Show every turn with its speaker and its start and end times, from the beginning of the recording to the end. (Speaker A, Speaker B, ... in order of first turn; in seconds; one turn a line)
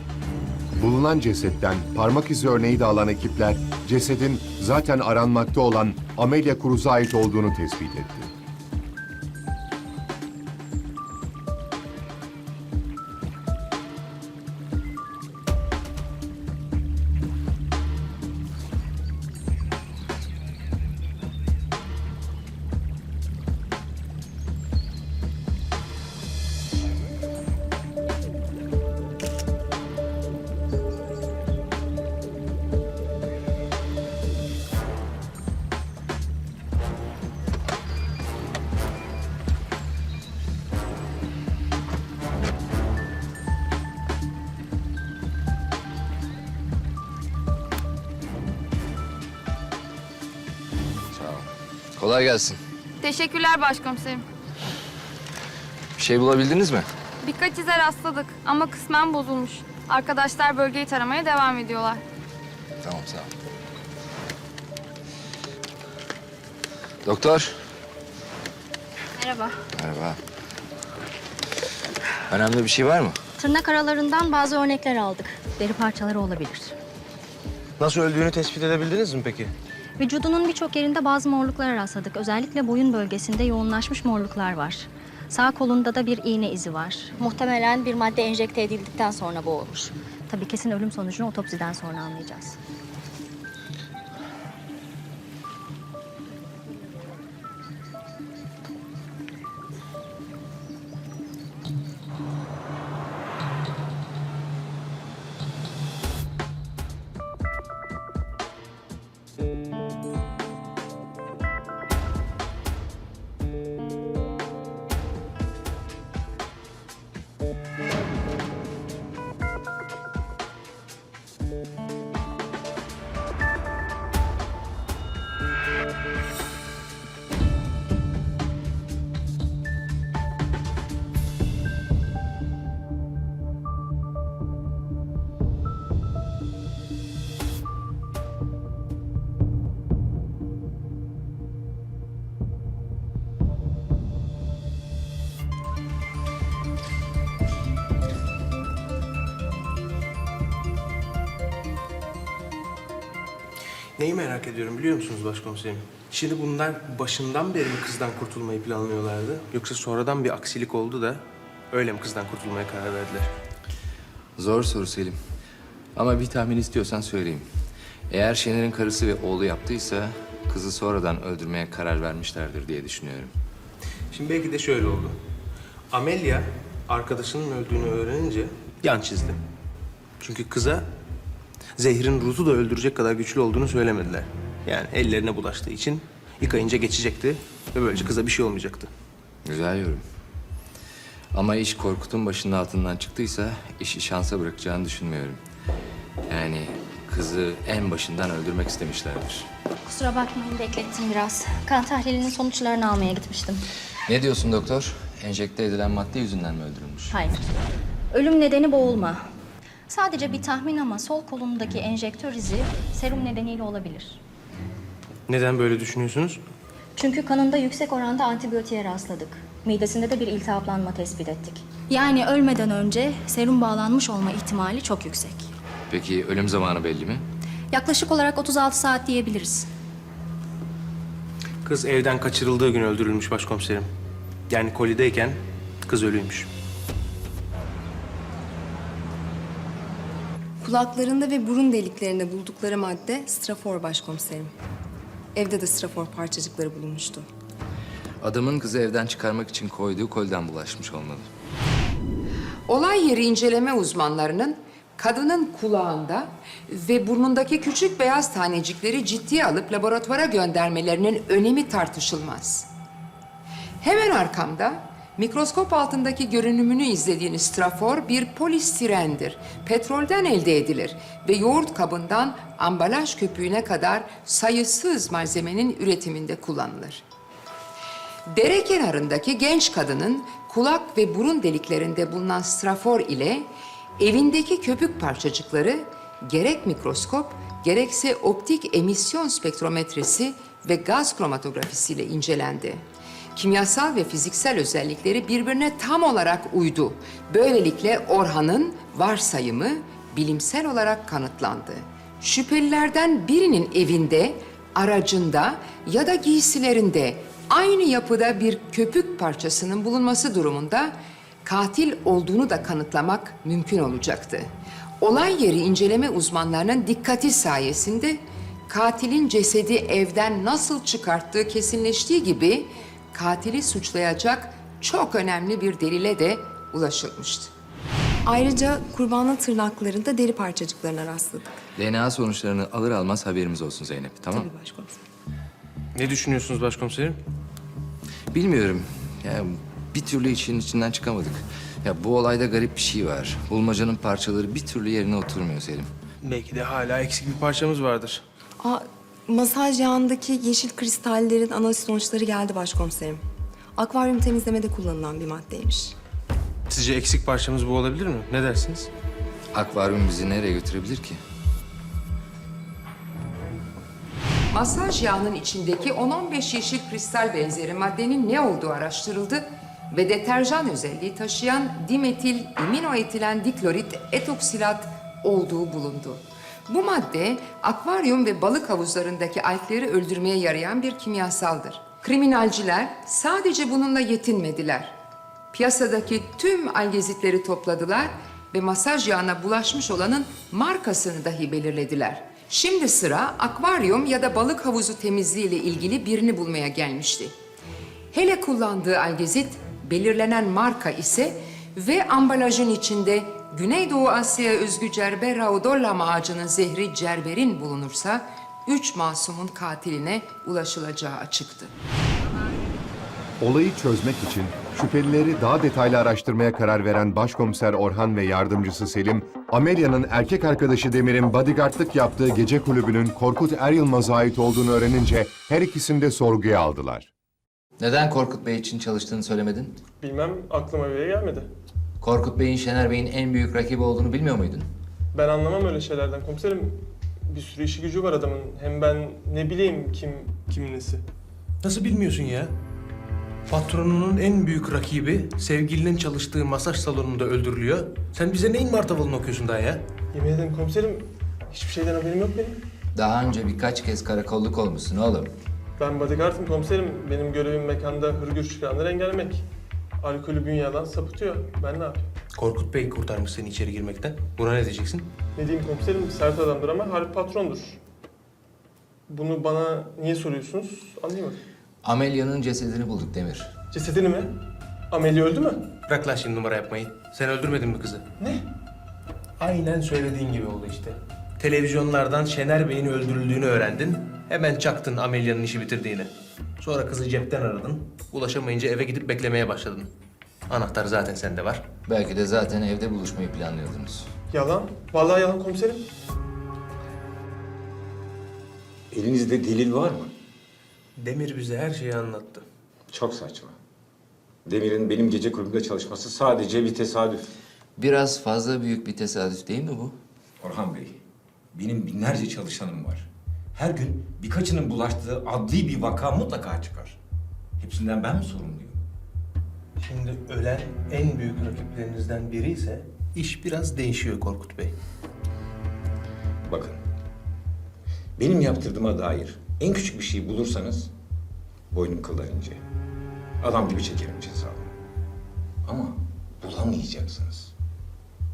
Speaker A: 0.8-8.3
Speaker B: 51.1-52.6
Speaker C: 53.0-54.2
Speaker B: 56.0-56.9
Speaker C: 57.2-62.0
Speaker B: 62.8-63.3
Speaker B: 67.0-67.6
Speaker D: 69.2-69.6
Speaker B: 69.7-70.2
Speaker B: 72.3-73.2
Speaker D: 73.4-76.8
Speaker E: 77.8-79.5
Speaker D: 80.0-92.6
Speaker E: 154.0-163.3
Speaker B: 164.4-165.2
Speaker B: 165.9-167.5
Speaker B: 168.1-173.3
Speaker E: 174.1-175.2
Speaker E: 175.9-179.4
Speaker E: 180.2-180.9
Speaker E: 181.8-188.9
Speaker B: 189.4-190.0
Speaker B: 191.3-195.4
Speaker B: 196.3-199.5
Speaker D: 199.9-203.7
Speaker B: 204.1-207.2
Speaker D: 207.1-207.4
Speaker D: 208.1-209.2
Speaker D: 209.9-214.2
Speaker E: 215.3-216.4
Speaker D: 217.0-225.5
Speaker B: 225.9-227.3
Speaker D: 227.7-229.7
Speaker E: 231.6-233.9
Speaker E: 234.5-236.5
Speaker F: 240.6-244.5
Speaker F: 245.3-247.3
Speaker B: 248.2-251.3
Speaker G: 252.7-262.7
Speaker G: 263.8-277.0
Speaker G: 278.3-327.5
Speaker F: 328.2-331.6
Speaker B: 331.8-334.5
Speaker F: 334.3-335.0
Speaker E: 335.9-337.2
Speaker B: 338.3-345.9
Speaker E: 346.2-348.2
Speaker F: 348.6-353.2
Speaker F: 353.8-355.9
Speaker E: 356.7-358.9
Speaker B: 359.5-361.2
Speaker G: 364.5-385.0
Speaker G: 385.5-397.3
Speaker G: 398.1-411.7
Speaker A: 413.4-427.1
Speaker B: 427.8-429.8
Speaker H: 430.0-431.5
Speaker B: 432.0-434.7
Speaker H: 435.1-441.0
Speaker E: 441.6-442.5
Speaker E: 443.5-449.8
Speaker H: 450.1-452.6
Speaker B: 452.9-455.3
Speaker H: 455.8-459.4
Speaker H: 460.0-462.1
Speaker E: 462.4-465.1
Speaker H: 465.4-467.8
Speaker H: 469.1-471.4
Speaker B: 471.8-473.5
Speaker H: 473.7-474.4
Speaker H: 474.9-475.6
Speaker E: 475.9-478.1
Speaker E: 479.4-489.9
Speaker E: 490.5-491.6
Speaker B: 491.9-494.1
Speaker H: 494.3-495.9
Speaker I: 498.9-500.1
Speaker E: 501.0-502.4
Speaker I: 502.9-503.6
Speaker I: 504.5-507.3
Speaker B: 507.8-510.0
Speaker I: 510.4-511.0
Speaker I: 511.5-517.0
Speaker I: 517.6-518.8
Speaker E: 519.8-524.7
Speaker I: 526.5-526.8
Speaker I: 528.2-530.9
Speaker I: 531.7-532.6
Speaker I: 533.4-534.7
Speaker I: 535.7-537.5